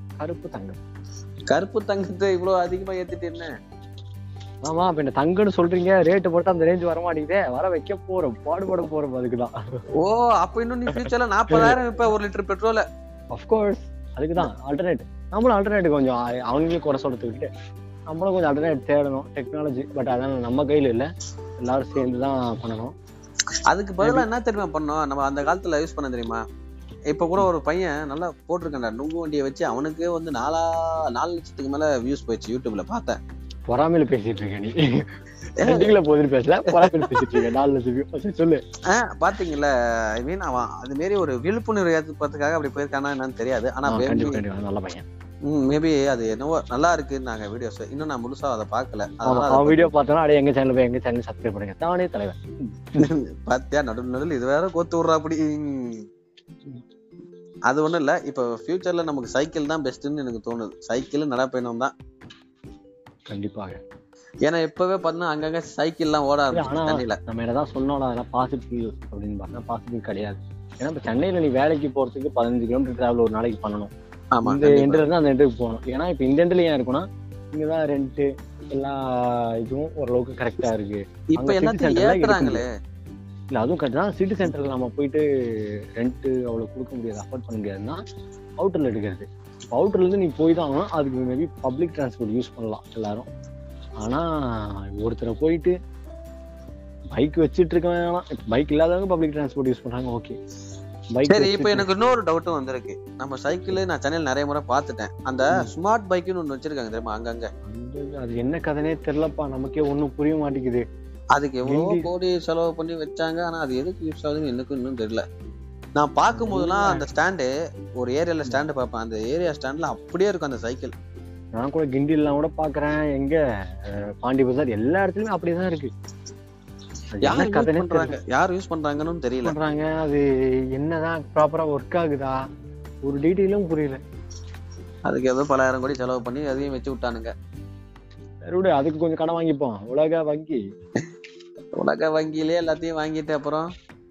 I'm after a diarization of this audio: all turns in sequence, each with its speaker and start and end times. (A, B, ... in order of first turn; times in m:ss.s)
0:00.2-0:00.8 A
0:01.5-0:03.5 B
0:04.6-0:09.5 A
0:10.0-0:12.8 B
0:10.9-0:11.8 A
0:13.3-0:17.5 A
0:18.1-0:21.1 A
0:21.6-0:22.9 A
0:23.7-0:26.4 B
0:27.1-0:33.2 B
0:33.7-0:34.7 A
0:35.6-0:35.9 B
0:35.6-0:38.6 A
0:36.7-0:37.5 B
0:38.9-0:44.4 B
0:43.9-0:45.0 A
0:45.4-0:49.9 B
0:49.2-0:53.1 A
0:53.0-0:56.0 B
0:57.7-1:01.9 B
1:03.3-1:03.8 A
1:04.4-1:07.2 B
1:06.5-1:13.9 A
1:14.3-1:15.0 B
1:14.4-1:22.6 A
1:21.3-1:22.7 B
1:23.5-1:25.2 A
1:26.0-1:28.0 A
1:28.6-1:33.3 A
1:35.0-1:35.7 A
1:37.1-1:40.4 A
1:41.2-1:41.9 A
1:41.3-1:47.5 B
1:47.7-1:50.8 A
1:51.3-1:55.2 B
1:51.6-1:52.1 A
1:56.0-2:00.9 B
1:56.3-1:57.0 A
2:01.6-2:03.4 A
2:04.2-2:05.9 A
2:07.1-2:08.1 A
2:07.2-2:09.5 B
2:09.4-2:10.2 A
2:10.8-2:12.3 A
2:13.0-2:14.0 A
2:15.1-2:17.3 B
2:18.5-2:20.6 A
2:21.8-2:23.7 B